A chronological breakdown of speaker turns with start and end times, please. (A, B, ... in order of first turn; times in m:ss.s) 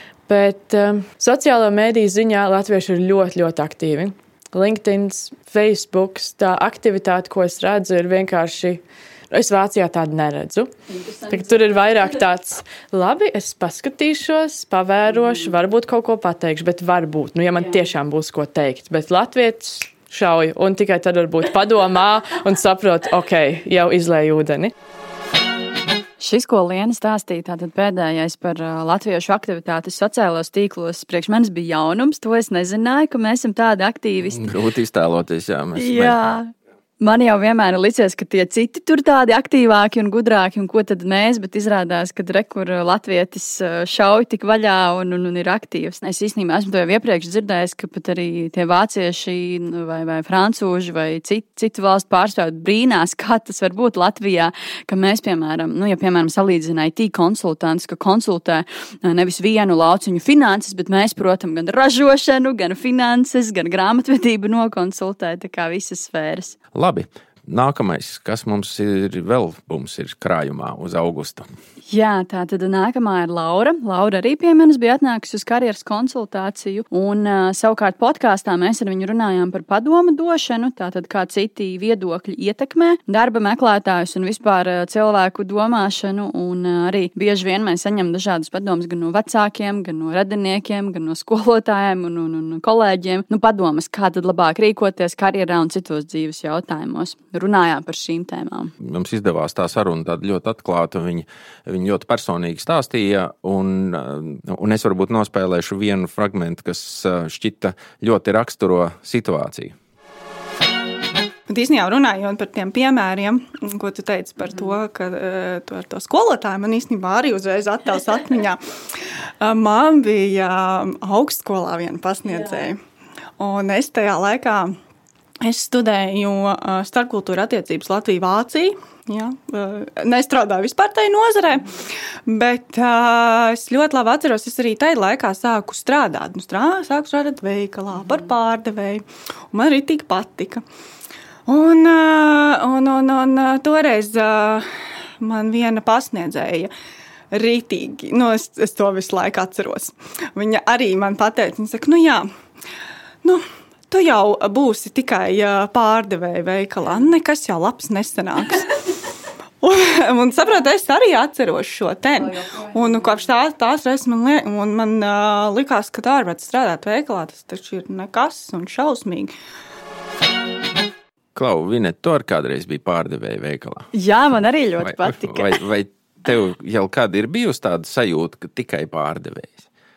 0:00.3-0:10.7 A
0:10.9-0:11.8 B
0:11.3-0:24.7 A
0:26.2-0:34.5 B
0:34.3-0:36.3 C
0:35.8-1:06.6 B
1:06.7-1:11.5 C
1:11.9-1:38.7 B
1:38.8-1:49.7 C
1:51.5-2:02.8 D
2:03.4-2:04.8 D
2:05.4-2:20.6 D
2:21.5-2:24.7 D
2:25.2-2:26.7 D
2:27.3-2:32.3 D
2:33.2-2:38.9 D
2:39.6-2:49.3 D
2:51.4-2:53.9 C
2:53.9-2:55.6 B
2:54.8-2:59.7 C